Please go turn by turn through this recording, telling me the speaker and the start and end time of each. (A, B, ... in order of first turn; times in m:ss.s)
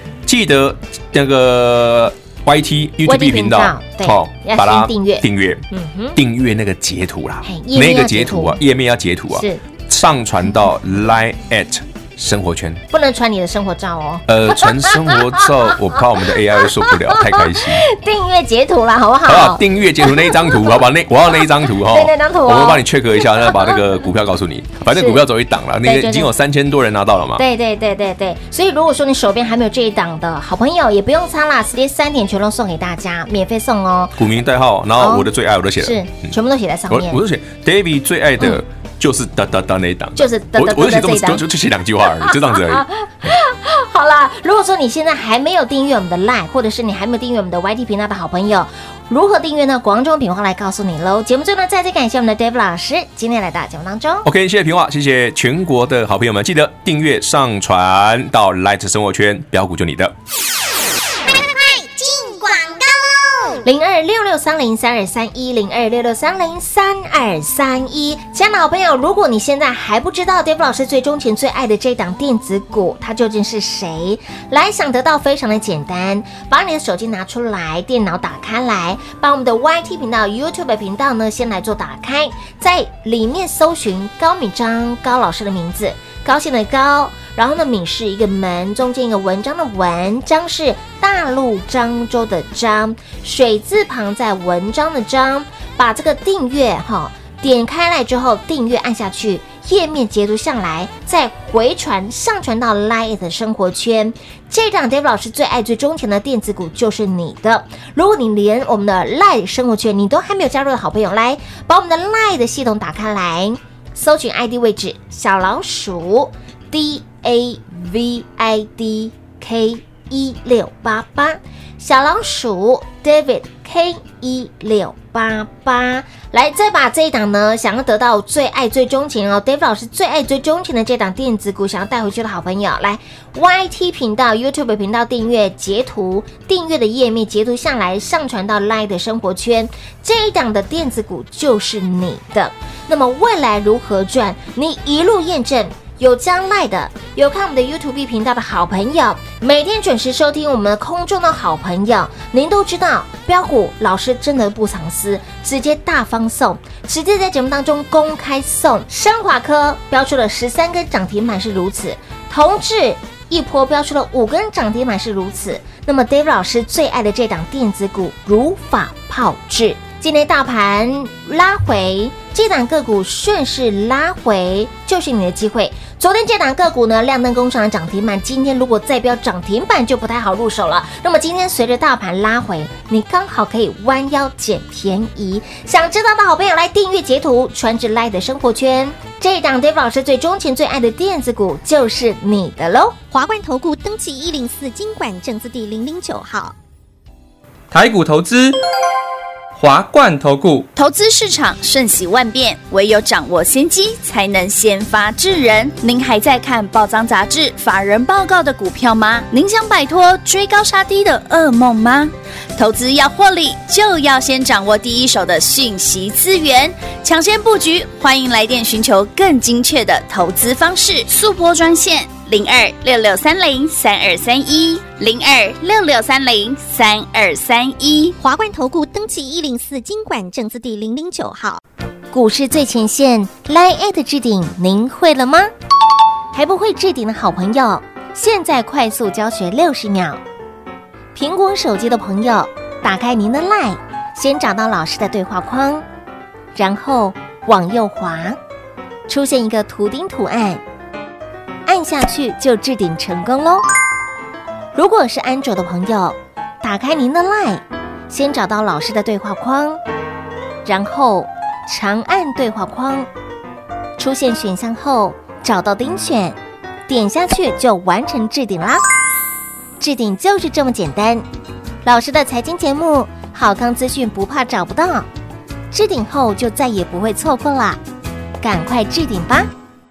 0:00.2-0:12.8 A
0:03.1-0:06.2 B
0:07.4-0:08.6 B
0:09.3-0:09.6 B
0:12.9-0:20.8 B
0:14.3-0:17.8 A
0:19.2-0:27.4 A
0:21.6-0:23.8 B
0:24.9-0:25.2 B
0:25.8-0:26.3 B
0:27.4-0:34.2 B
0:34.2-0:36.3 A
0:35.0-0:35.3 B
0:35.8-0:37.2 B
0:36.9-0:42.9 A
0:40.2-0:41.4 B
0:42.2-0:54.3 B
0:54.2-1:00.1 A
1:01.2-1:03.6 C
1:03.6-3:13.0 B
3:13.1-3:16.6 D
3:17.7-3:18.6 E
3:19.6-3:20.7 E
3:20.8-3:48.2 F
3:48.2-3:51.6 D
3:52.1-3:55.5 B
3:56.3-4:00.2 B
4:01.2-4:05.8 B
4:06.6-4:08.4 B
4:09.1-4:10.6 B
4:11.7-4:13.6 B
4:14.8-4:19.8 B
4:20.6-4:23.1 B
4:24.0-4:28.8 B
4:29.8-4:31.3 B
4:31.8-4:35.1 B
4:35.7-4:37.8 B
4:38.4-4:39.5 B